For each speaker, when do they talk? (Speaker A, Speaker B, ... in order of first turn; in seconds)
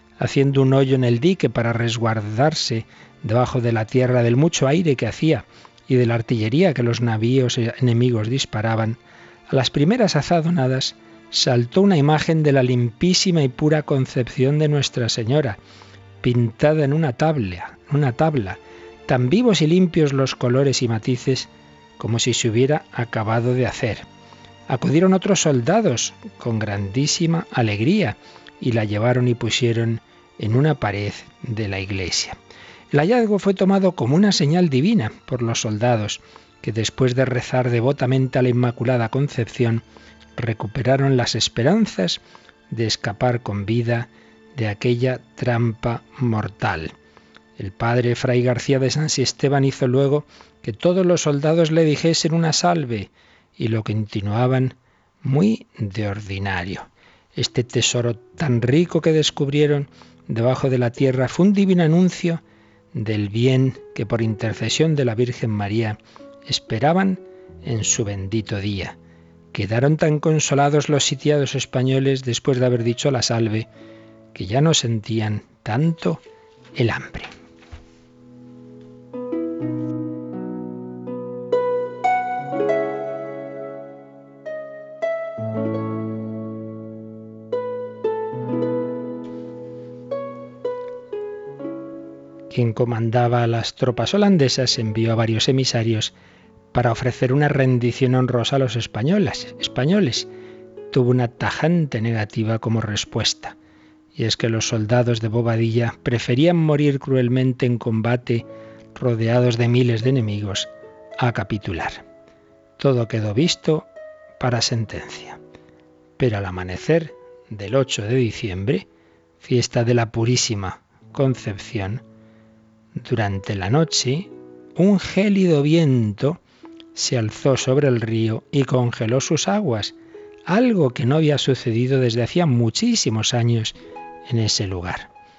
Speaker A: 0.2-15.6, 16.2-24.1, 24.7-32.4, 32.9-39.8, 40.4-46.9, 47.6-62.4, 62.9-69.0, 69.5-73.7, 74.3-76.2, 76.7-77.3, 92.5-96.1, 96.7-100.3, 100.9-103.5, 104.1-112.0, 112.8-115.4, 116.2-118.9, 119.4-122.0, 123.0-126.4, 126.9-129.9, 130.4-135.1